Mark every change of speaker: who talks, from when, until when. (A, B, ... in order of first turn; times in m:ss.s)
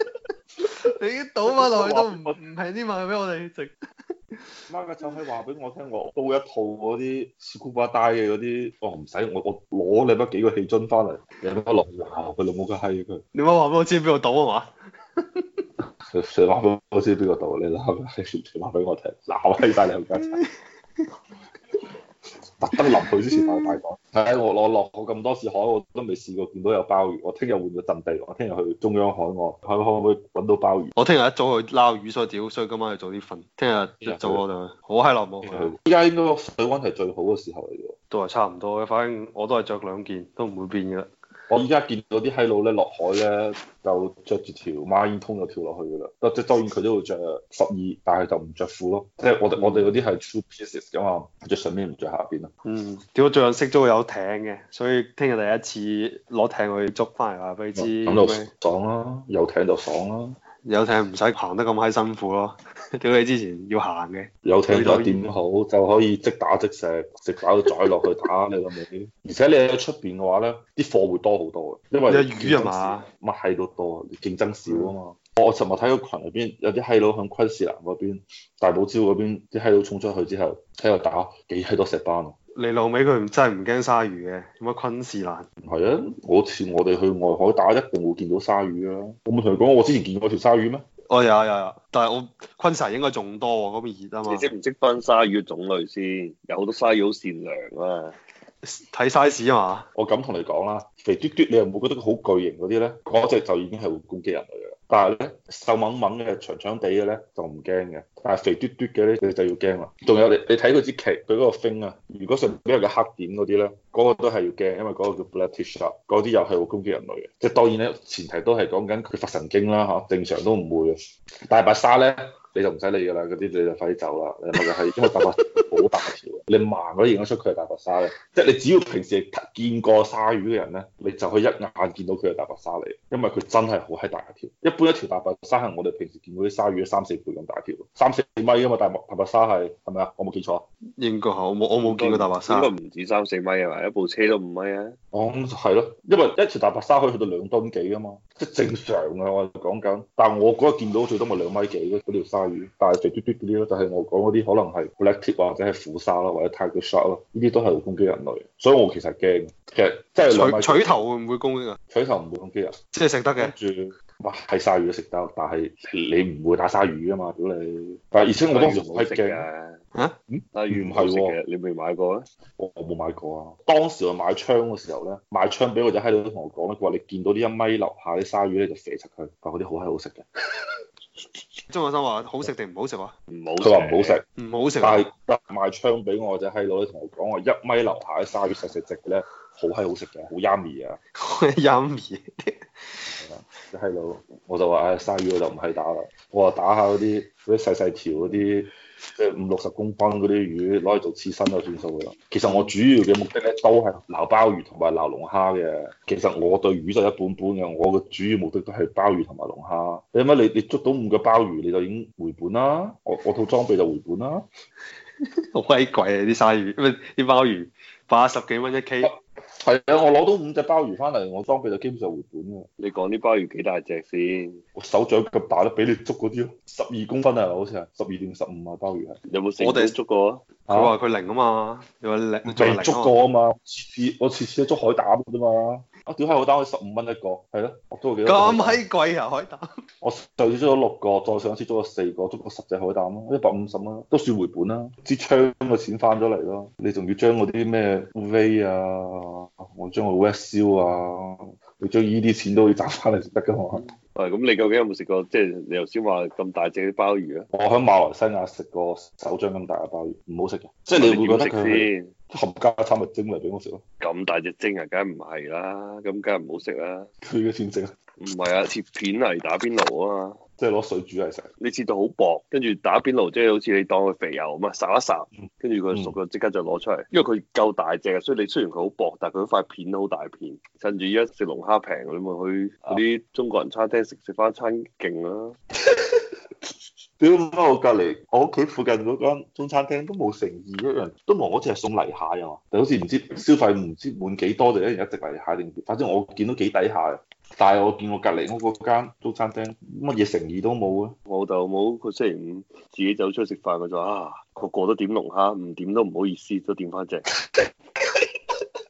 0:00.6-0:03.8 A
0:01.5-0:02.4 B
0:04.7-0:13.2 B
0:13.3-0:15.6 A
0:16.1-0:20.4 B
0:20.1-0:20.5 A
0:22.6-0:30.9 B
0:22.8-0:23.8 A
0:31.0-0:35.7 A
0:34.0-0:34.4 B
0:35.4-0:38.0 B
0:38.1-0:41.1 A
0:41.5-0:52.5 B
0:49.6-0:50.0 A
0:52.6-0:58.5 A
0:57.8-1:00.4 B
1:00.6-1:05.2 A
1:04.4-1:22.4 B
1:12.1-1:13.1 A
1:14.7-1:15.0 A
1:22.6-1:25.5 A
1:25.6-1:30.8 B
1:31.1-1:34.5 A
1:34.2-1:38.1 C
1:38.6-1:39.9 A
1:40.0-2:01.0 B
2:01.5-2:20.7 B
2:21.0-2:22.7 A
2:21.8-2:25.0 C
2:25.1-2:41.0 B
2:40.3-2:41.8 A
2:41.9-2:42.8 B
2:42.9-2:43.5 A
2:43.4-2:49.5 B
2:48.5-2:49.8 C
2:50.3-2:51.4 B
2:50.5-2:52.3 C
2:52.6-3:00.7 B
3:01.7-3:03.1 A
3:03.3-3:04.2 C
3:03.6-3:04.2 B
3:04.4-3:05.0 A
3:04.8-3:11.0 B
3:11.2-3:13.1 A
3:13.1-3:34.5 B
3:35.5-3:39.1 A
3:39.0-3:42.7 B
3:42.8-3:44.6 C
3:44.8-3:49.2 B
3:49.3-3:50.4 C
3:49.6-3:50.0 A
3:50.7-3:51.0 B
3:50.7-3:53.2 A
3:52.5-3:58.8 B
3:58.2-3:59.7 A
4:00.0-4:13.9 B
4:14.2-4:17.5 C
4:17.5-4:23.8 B
4:21.0-4:22.1 C
4:24.0-4:27.1 C
4:27.2-4:27.9 B
4:28.2-4:30.4 C
4:30.6-4:31.5 B
4:31.6-4:45.6 C
4:35.3-4:36.2 B
4:45.9-4:46.2 B
4:47.2-5:01.2 B
5:01.3-5:07.3 C